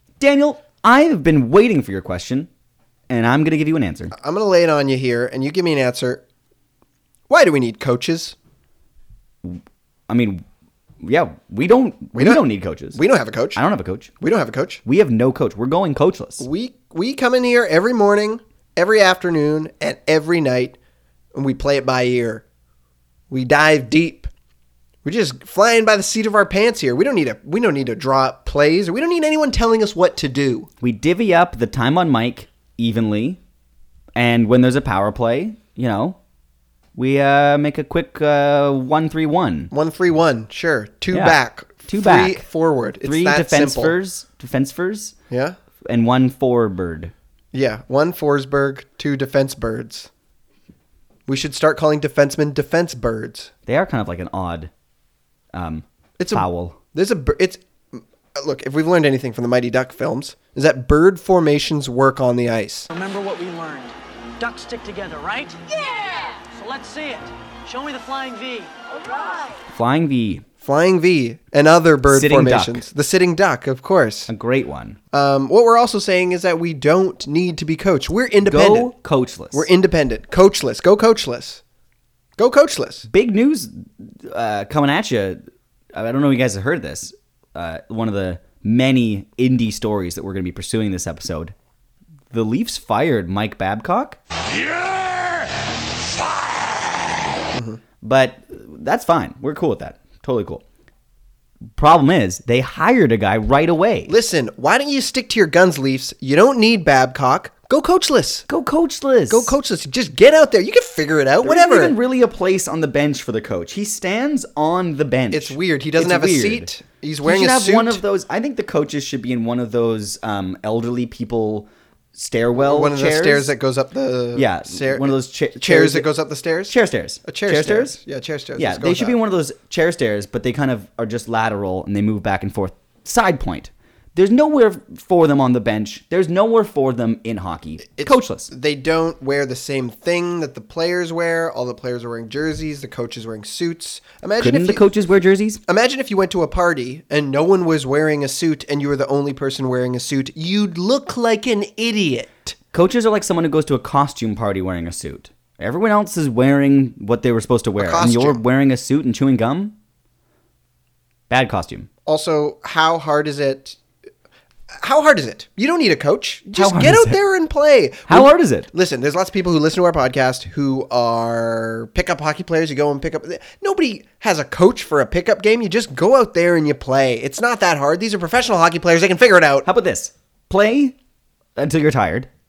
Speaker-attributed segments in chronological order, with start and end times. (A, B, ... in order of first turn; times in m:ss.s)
0:00.2-0:02.5 A
0:03.1-0:04.1 A
0:04.1-0:06.2 B
0:07.3-0:08.4 B
0:09.4-0:10.4 A
0:11.0-0:13.0 A
0:12.1-0:12.4 B
0:12.9-0:13.6 B
0:13.6-0:14.1 A
0:14.2-0:14.8 B
0:14.8-0:16.4 A
0:16.4-0:20.8 B
0:21.3-0:22.4 B
0:23.3-0:24.3 B
0:25.0-0:30.7 B
0:30.8-0:33.4 A
0:34.1-0:36.2 A
0:36.9-0:39.7 A
0:39.7-0:43.9 B
0:41.1-0:42.4 A
0:43.0-0:45.1 A
0:45.3-0:45.6 B
0:45.8-0:47.1 A
0:47.5-0:50.1 B
0:51.3-0:53.5 B
0:53.6-0:54.7 A
0:55.5-0:56.8 A
0:56.2-1:02.9 B
1:02.9-1:09.5 C
1:09.7-1:10.4 A
1:10.6-1:14.3 B
1:12.1-1:12.8 A
1:14.3-1:15.0 A
1:15.1-1:18.9 B
1:18.4-1:19.7 A
1:19.5-1:21.6 B
1:22.4-1:23.1 B
1:23.1-1:25.4 A
1:25.9-1:31.5 A
1:32.3-1:34.2 A
1:37.5-1:37.8 B
1:38.0-1:40.6 A
1:41.7-1:44.1 A
1:44.1-1:48.4 B
1:48.5-1:49.5 A
1:49.3-1:51.9 B
1:51.4-1:56.7 A
1:55.3-1:58.0 B
1:57.2-2:03.5 A
2:02.6-2:09.2 B
2:04.3-2:06.1 A
2:06.7-2:08.0 A
2:08.6-2:18.5 A
2:17.9-2:24.8 B
2:24.4-2:25.6 A
2:25.6-2:32.5 B
2:32.7-2:39.7 A
2:37.8-2:38.4 B
2:41.3-2:41.9 A
2:42.0-2:43.8 B
2:44.8-2:59.7 B
2:46.5-2:47.2 A
2:48.1-2:48.7 A
2:59.6-3:01.0 A
3:01.6-3:02.3 A